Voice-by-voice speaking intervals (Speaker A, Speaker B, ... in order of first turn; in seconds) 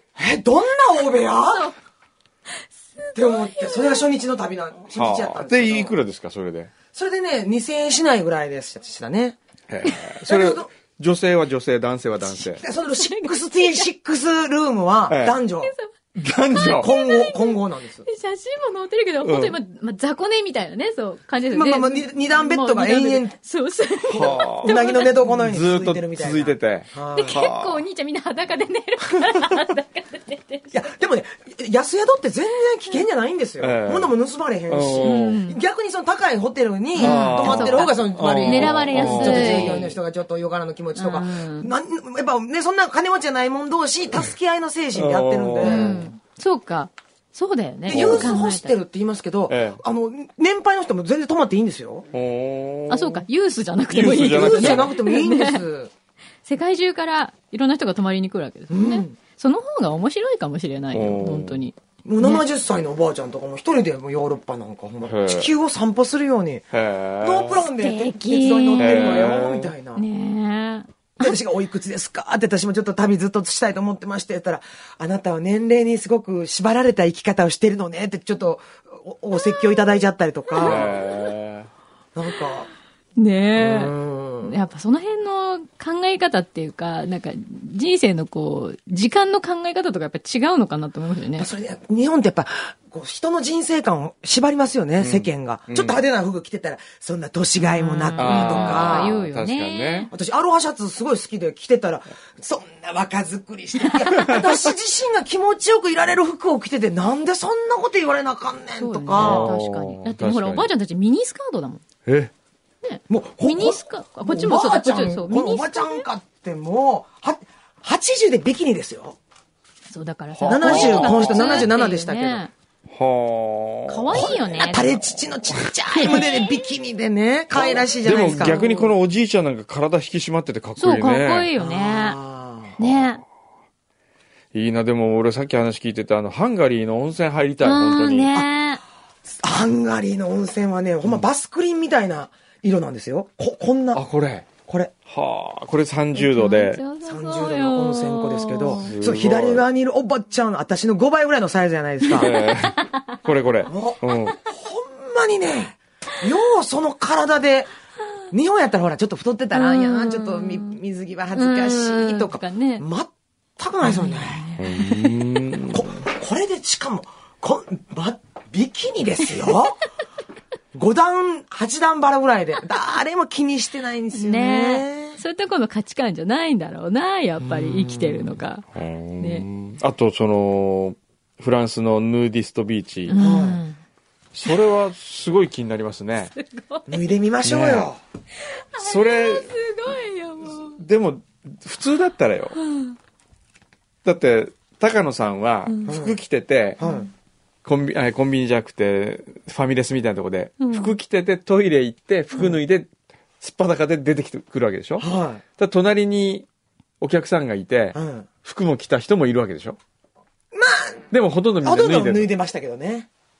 Speaker A: 0.2-1.7, 3.1-5.9, 6.9-9.4, 10.2-10.7, 12.3-15.7, 16.7-18.1, 21.5-23.4, 24.1-27.4, 30.7-46.0, 47.9-52.1, 54.1-55.9, 58.7-59.2, 62.0-66.7, 67.2-70.0, 71.2-81.0, 82.2-82.7, 83.6-84.5, 91.4-99.2, 100.1-109.6, 113.1-119.2, 120.5-122.4, 124.1-128.6, 131.6-132.8, 139.3-144.0, 144.7-144.9, 147.0-152.3, 153.7-157.7, 158.3-164.4, 165.7-169.8, 170.7-175.2, 177.7-178.2, 183.2-183.6, 186.9-188.0, 195.9-196.2, 196.8-197.1, 205.0-205.4, 207.9-208.3, 210.5-211.1, 211.6-213.1
Speaker B: 1.4-1.8, 3.0-4.0, 12.8-13.9, 15.6-15.9, 16.5-25.2, 27.1-30.8, 35.0-35.6, 37.0-39.8, 41.0-41.7, 45.6-48.7, 52.9-55.6, 56.5-62.4, 67.8-69.3, 70.0-71.4, 80.6-81.0, 83.2-91.5, 97.6-100.1, 103.8-104.3, 108.8-111.8, 112.8-116.1, 119.9-122.5, 123.9-125.0, 125.9-126.6, 128.1-128.9, 130.8-132.2, 132.8-133.2, 137.6-138.8, 146.2-148.9, 152.1-153.0, 159.5-160.8, 161.3-162.8, 163.8-165.2, 174.2-178.7, 179.2-179.5, 183.1-183.8, 186.3-186.9, 188.7-190.8, 192.6-193.0, 195.7-195.9, 196.8-197.1, 200.6-200.9
Speaker C: 4.9-6.7, 9.7-12.6, 15.1-15.4, 16.1-16.9, 19.2-19.6, 24.1-27.8, 33.6-34.1, 34.7-35.4, 37.0-40.0, 45.0-46.0, 47.9-48.4, 49.5-49.8, 52.1-53.2, 53.9-54.9, 60.9-61.6, 65.0-65.5, 66.7-67.6, 68.8-69.7, 80.6-81.7, 95.0-96.0, 98.2-100.1, 109.1-110.7, 112.1-112.3, 120.4-121.7, 122.9-124.3, 127.5-131.5, 132.8-133.1, 134.5-138.3, 143.9-144.5, 145.1-146.8, 148.8-149.6, 152.1-154.4, 164.6-165.8, 178.7-183.2, 184.3-186.3, 187.4-187.9, 188.8-189.5, 190.8-192.6, 194.1-196.8, 197.7-202.9, 203.4-206.5, 207.0-209.8, 211.1-212.3